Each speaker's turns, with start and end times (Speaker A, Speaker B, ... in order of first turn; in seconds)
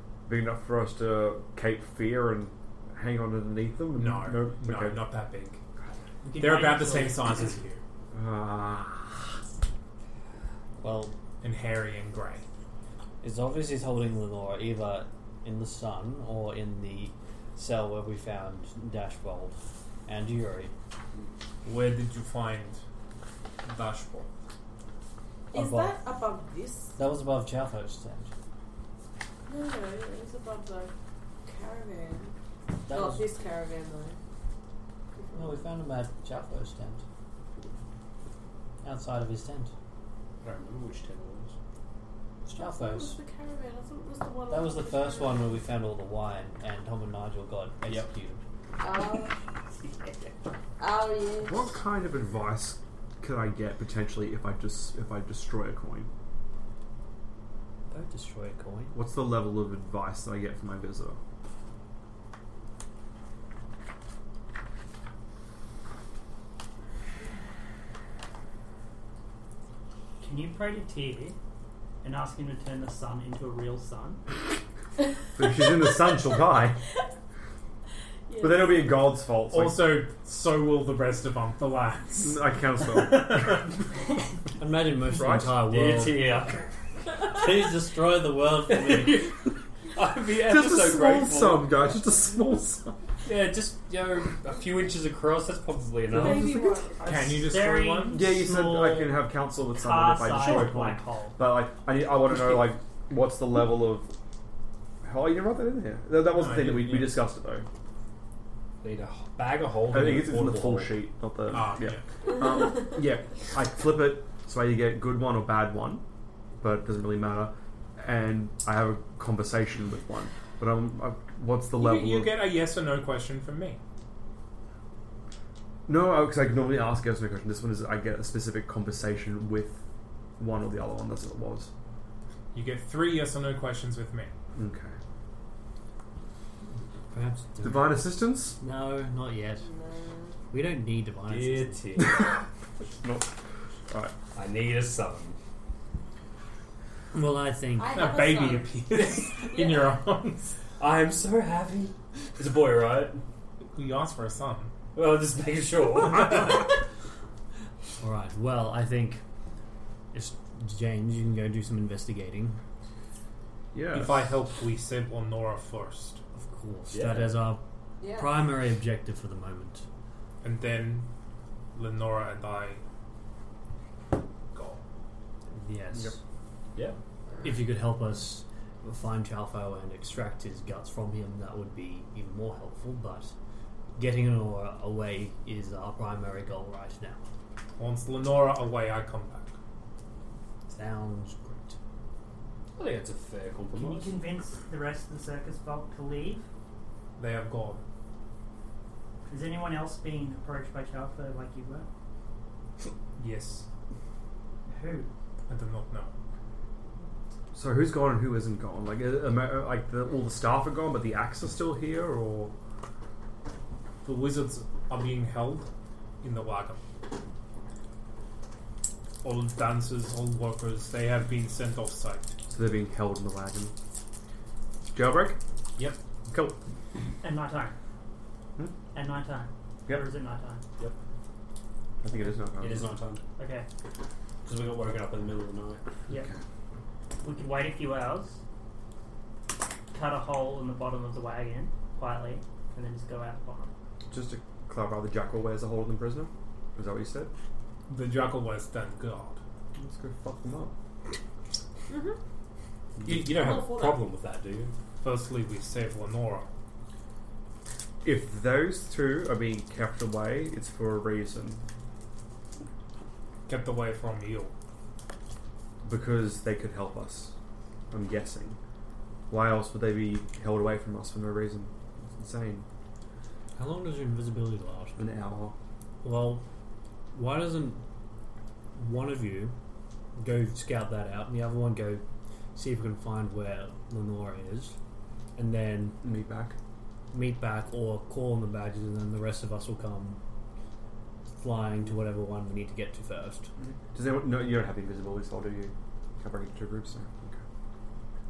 Speaker A: 0.2-5.0, 8.1-9.3, 51.4-56.1, 58.9-61.2, 75.3-76.8, 78.4-80.0, 82.2-83.6, 85.1-85.6, 90.4-93.0, 96.2-96.8, 98.1-104.1, 105.0-107.6, 109.9-116.0, 116.6-122.4, 125.9-129.8, 130.4-131.7, 134.5-134.9, 137.6-138.6, 142.0-143.3, 143.9-144.1, 163.7-164.2, 207.5-212.5, 222.5-223.7, 224.9-225.4, 226.3-226.6, 232.0-232.9, 236.1-236.4, 244.1-247.3, 249.7-250.7, 253.0-253.5, 258.0-261.6, 265.8-267.3, 267.9-268.6, 269.3-272.6, 275.0-275.5, 286.0-286.6, 293.9-297.4
Speaker B: 4.0-5.6, 6.4-7.8, 11.4-12.4, 21.6-22.8, 23.6-24.3, 79.5-82.4, 83.0-83.6, 97.0-98.2, 106.3-107.2, 111.5-112.0, 121.8-123.8, 132.5-134.3, 147.9-150.6, 153.7-154.7, 163.9-166.2, 170.4-171.1, 171.7-172.8, 174.5-174.8, 187.8-189.5, 197.2-197.8, 203.2-203.7, 205.5-206.1, 214.0-215.7, 216.2-216.8, 219.2-222.3, 247.9-249.4, 255.0-256.5, 263.5-264.5
Speaker C: 6.2-7.6, 70.2-71.3, 72.0-74.2, 97.0-101.4, 193.7-196.4, 199.3-201.9, 204.7-205.1, 227.2-227.7, 228.9-230.6, 233.4-233.7, 237.2-238.4, 239.9-243.7
Speaker D: 10.8-11.1, 13.2-20.7, 25.5-26.0, 26.9-28.3, 32.9-33.3, 35.3-37.0, 38.8-39.7, 42.4-43.2, 44.5-48.4, 57.9-59.0, 84.6-86.5, 87.2-89.3, 137.1-138.0, 138.6-139.7, 140.5-141.9, 147.1-148.1, 158.0-159.2, 160.1-162.6, 166.3-167.6, 168.1-169.8, 175.5-176.2, 177.4-183.3, 183.9-187.2, 190.7-191.8, 273.6-275.0, 276.0-276.4, 277.1-277.8, 278.7-279.5, 280.2-282.0, 282.5-284.8, 285.4-286.0, 287.1-290.2, 291.4-293.5
Speaker E: 25.5-27.0, 29.5-30.9, 31.4-32.3, 32.9-34.2, 35.1-35.6, 42.6-45.6, 48.8-49.4, 50.8-51.7, 78.3-79.0, 96.1-97.1, 139.6-140.4, 147.8-148.8, 149.3-150.0, 168.0-168.5, 251.9-252.2, 253.3-254.1
Speaker F: 40.4-41.5, 85.6-86.6, 88.7-91.7, 93.2-96.5, 108.8-111.0, 141.3-142.3, 144.3-145.3, 150.8-153.2, 154.9-156.7, 166.9-167.5, 192.8-194.2, 232.6-233.2, 234.4-235.8, 253.0-254.7